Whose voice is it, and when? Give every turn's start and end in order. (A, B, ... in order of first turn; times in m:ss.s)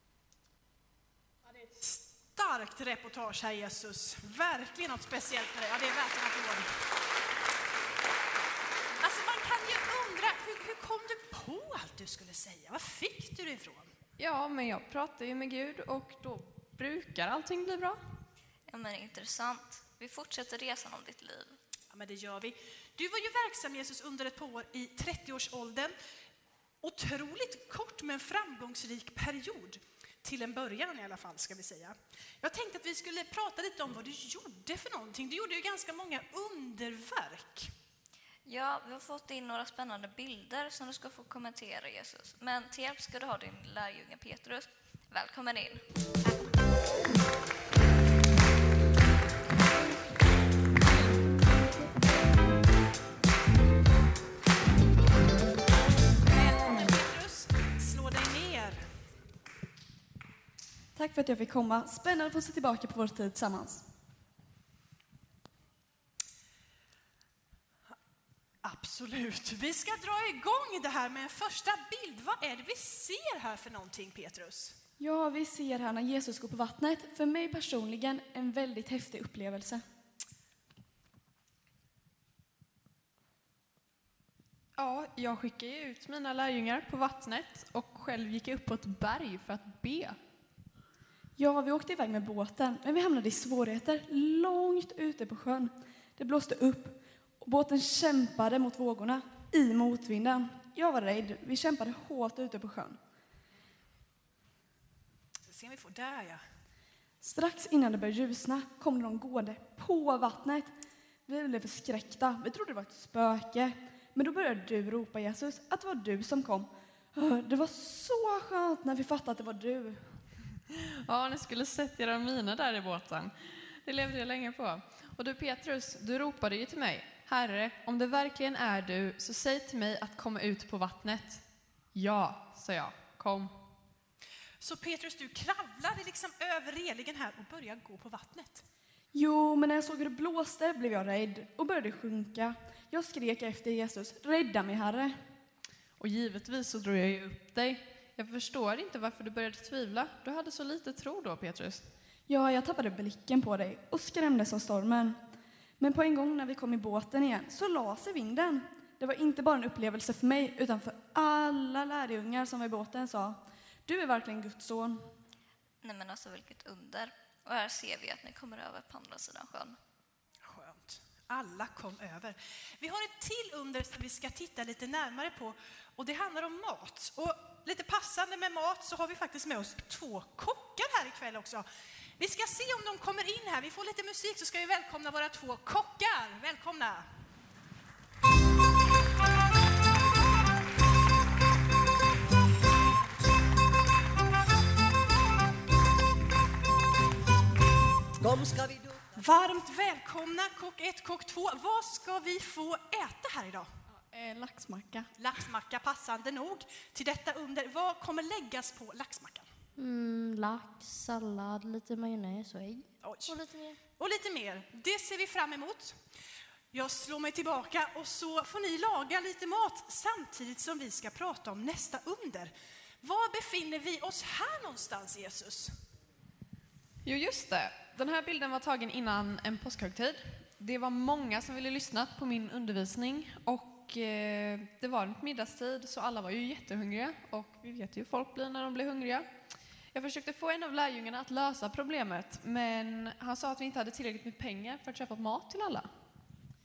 0:01.7-0:06.7 A
0:09.0-0:13.9 A
0:14.2-0:18.0 B
0:18.7-0:21.6 C
0:21.9-0:25.9 A
0:26.8-0:37.7 A
0:38.4-0:45.8 C
0:56.2-0:58.9 A
1:00.9-1:03.9 D
1:08.6-1:14.8 A
1:15.0-1:19.8 D
1:24.8-1:30.2 B
1:31.4-1:43.0 D
1:45.5-1:46.4 A
1:47.2-1:50.7 D
1:51.2-2:00.2 D
2:01.1-2:13.6 B
2:14.6-2:18.6 A
2:19.1-2:25.2 D
2:26.0-2:31.9 B
2:32.3-2:35.2 D
2:35.8-2:45.1 D
2:45.8-2:49.8 C
2:50.4-3:01.6 A
3:02.2-3:07.0 A
3:19.1-3:23.7 A
3:24.1-3:25.0 D
3:25.2-3:29.5 A
3:29.8-3:32.8 E
3:33.0-3:33.4 A
3:33.9-3:36.0 A
3:36.7-3:45.8 A
3:47.0-3:59.3 B
3:59.9-4:05.9 B